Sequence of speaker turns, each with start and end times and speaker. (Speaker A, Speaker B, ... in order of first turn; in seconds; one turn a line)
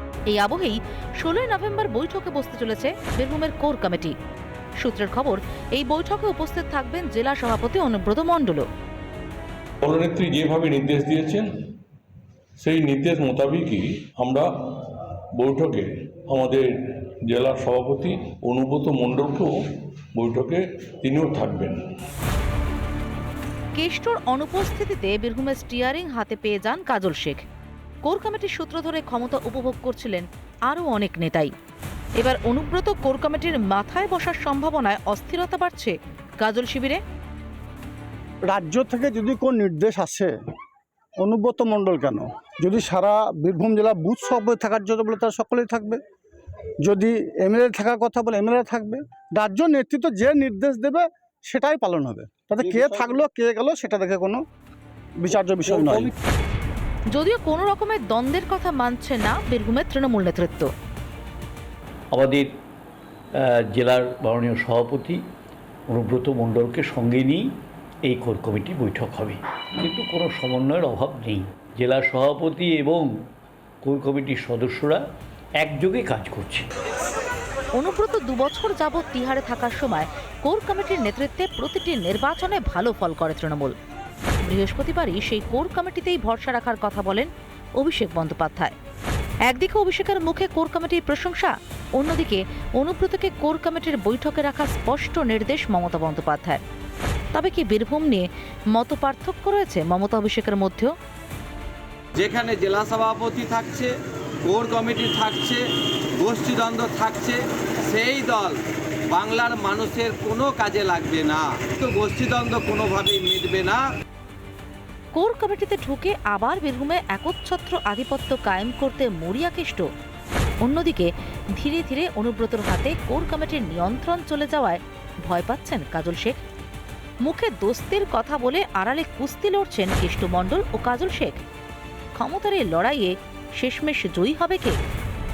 Speaker A: 0.3-4.2
Speaker A: 4.8-8.7
Speaker B: 9.8-11.4
Speaker B: 12.6-14.4
Speaker B: 15.4-16.6
Speaker B: 17.3-19.5
Speaker B: 20.1-21.7
Speaker A: 23.7-27.4
Speaker A: 28.0-31.5
Speaker A: 32.2-37.0
Speaker C: 38.5-40.3
Speaker C: 41.2-46.0
Speaker C: 46.8-54.4
Speaker C: 55.2-56.1
Speaker A: 57.1-60.7
Speaker D: 62.1-62.5
Speaker D: 63.4-65.2
Speaker D: 65.9-67.5
Speaker D: 68.0-73.1
Speaker D: 73.8-75.0
Speaker D: 75.6-76.7
Speaker A: 77.7-83.8
Speaker A: 84.5-88.7
Speaker A: 89.5-96.6
Speaker A: 97.3-100.9
Speaker E: 102.2-105.7
Speaker E: 106.2-113.8
Speaker A: 115.1-119.9
Speaker A: 120.6-126.4
Speaker A: 127.2-131.4
Speaker A: 132.1-134.8